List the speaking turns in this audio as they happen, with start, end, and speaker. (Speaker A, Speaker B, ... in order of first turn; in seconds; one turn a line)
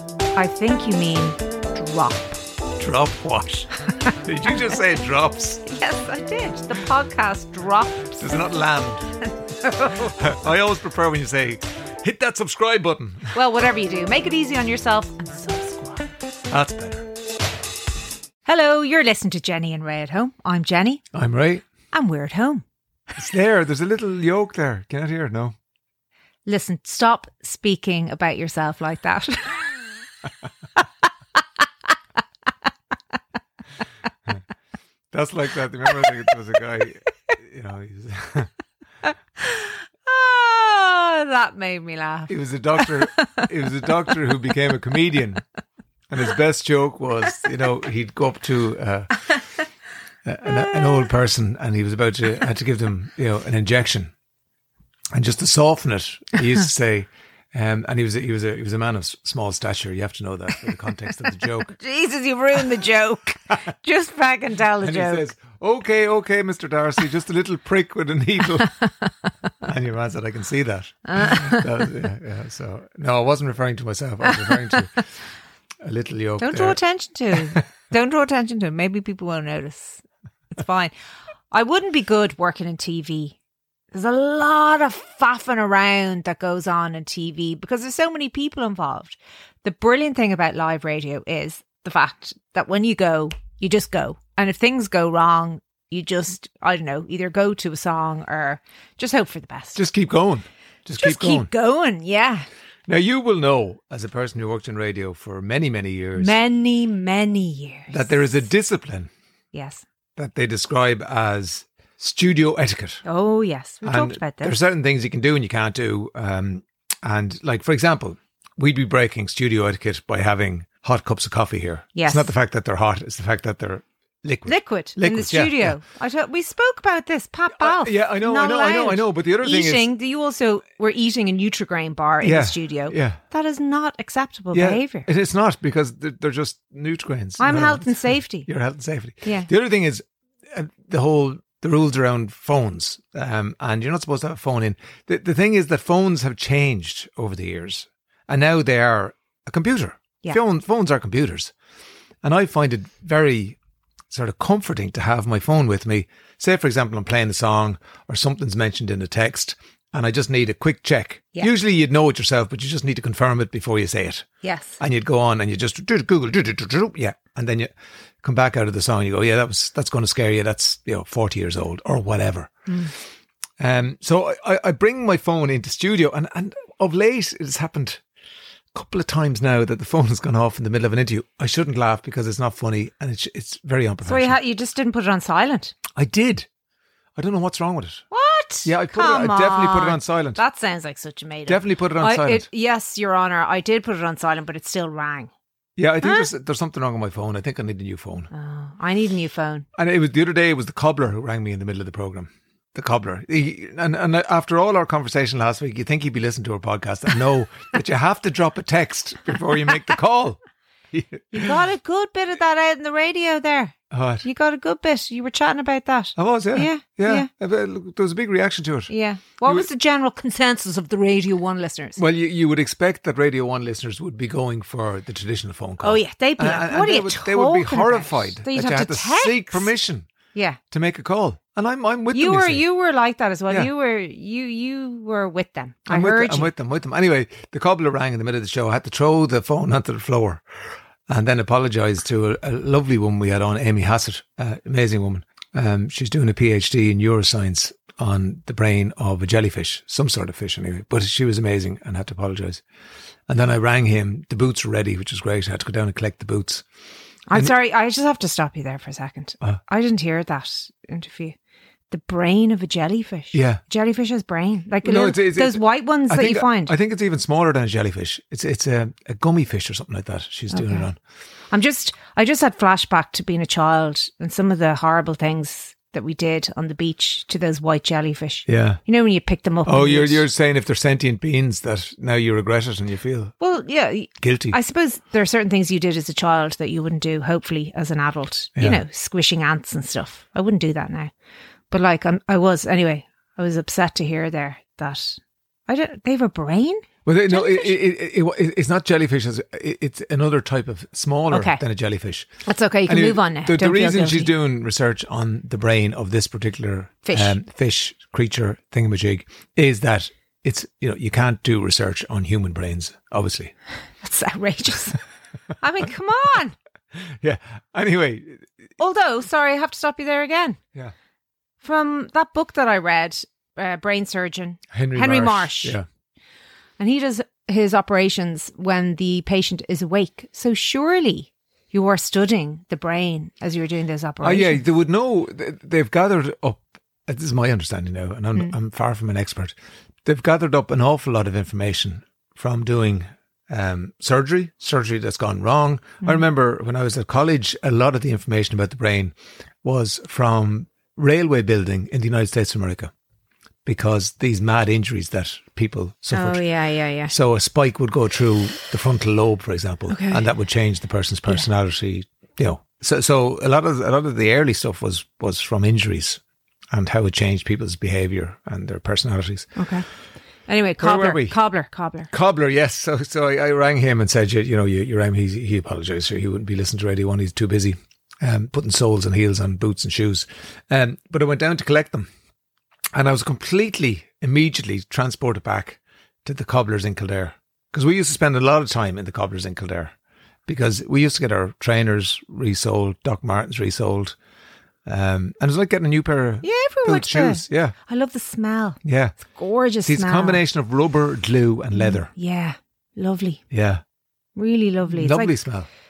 Speaker A: 0.3-2.4
Speaker B: 2.8-5.6
Speaker A: 5.7-8.4
Speaker B: 8.2-9.2
Speaker A: 9.6-10.1
Speaker B: 10.0-13.4
Speaker A: 13.3-16.1
Speaker B: 16.5-17.1
Speaker A: 18.4-21.1
Speaker B: 21.1-21.7
Speaker A: 21.9-22.6
Speaker B: 23.2-25.6
Speaker A: 26.5-29.8
Speaker B: 35.1-38.5
Speaker A: 39.0-43.5
Speaker B: 42.3-45.4
Speaker B: 46.1-49.3
Speaker B: 50.2-54.1
Speaker B: 55.1-61.7
Speaker A: 61.6-65.3
Speaker B: 64.8-68.8
Speaker B: 69.6-75.0
Speaker A: 71.1-71.7
Speaker B: 75.8-76.8
Speaker A: 76.4-80.9
Speaker B: 77.3-77.6
Speaker A: 81.5-83.4
Speaker A: 83.9-99.8
Speaker B: 99.8-101.5
Speaker A: 101.0-102.5
Speaker B: 102.9-106.3
Speaker A: 106.2-108.3
Speaker B: 107.9-109.1
Speaker A: 109.5-109.8
Speaker B: 110.2-113.0
Speaker A: 113.0-114.6
Speaker B: 113.8-125.8
Speaker A: 122.0-122.3
Speaker A: 124.5-135.1
Speaker B: 127.6-129.9
Speaker B: 132.2-133.2
Speaker B: 134.5-151.5
Speaker A: 137.4-138.5
Speaker A: 139.2-139.5
Speaker B: 152.2-153.6
Speaker B: 154.1-164.3
Speaker A: 164.4-164.8
Speaker B: 164.8-167.7
Speaker B: 168.2-172.6
Speaker A: 172.7-172.9
Speaker B: 173.6-178.0
Speaker B: 178.7-184.4
Speaker A: 184.1-185.8
Speaker B: 185.9-186.5
Speaker B: 187.2-188.1
Speaker A: 188.1-195.3
Speaker B: 188.7-190.4
Speaker B: 191.5-192.5
Speaker B: 195.8-198.3
Speaker A: 196.0-196.3
Speaker A: 198.3-199.7
Speaker B: 199.8-210.4
Speaker B: 210.9-211.6
Speaker A: 211.3-217.3
Speaker B: 213.9-214.2
Speaker B: 216.2-218.9
Speaker A: 218.9-222.0
Speaker B: 222.0-230.1
Speaker A: 225.8-229.7
Speaker A: 230.3-230.6
Speaker B: 230.7-232.6
Speaker A: 232.1-236.5
Speaker B: 235.9-240.4
Speaker B: 241.1-252.6
Speaker B: 253.3-256.6
Speaker A: 257.3-261.4
Speaker A: 261.9-266.7
Speaker B: 263.3-263.6
Speaker B: 264.8-271.0
Speaker A: 270.5-270.9
Speaker A: 271.5-280.2
Speaker B: 278.5-278.8
Speaker B: 279.6-283.3
Speaker A: 283.4-291.1
Speaker B: 284.2-284.6
Speaker B: 288.6-288.8
Speaker A: 291.7-297.7
Speaker B: 297.1-302.3
Speaker A: 301.3-301.6
Speaker A: 302.4-304.3
Speaker B: 302.9-313.5
Speaker A: 307.1-307.4
Speaker A: 314.0-315.0
Speaker A: 315.6-316.6
Speaker B: 317.1-318.5
Speaker A: 318.8-320.6
Speaker A: 321.6-325.8
Speaker B: 324.7-325.9
Speaker A: 326.8-334.6
Speaker B: 334.2-352.9
Speaker B: 353.6-356.4
Speaker A: 356.1-357.1
Speaker B: 357.1-366.2
Speaker A: 359.9-360.2
Speaker B: 366.7-369.6
Speaker A: 369.6-369.9
Speaker A: 370.5-372.1
Speaker B: 370.8-371.4
Speaker B: 372.1-382.1
Speaker B: 382.9-389.9
Speaker B: 390.5-394.2
Speaker B: 394.9-397.8
Speaker A: 396.4-400.4
Speaker B: 398.8-399.2
Speaker B: 399.9-402.1
Speaker A: 401.8-403.4
Speaker B: 403.5-403.8
Speaker A: 404.4-405.3
Speaker B: 404.9-405.7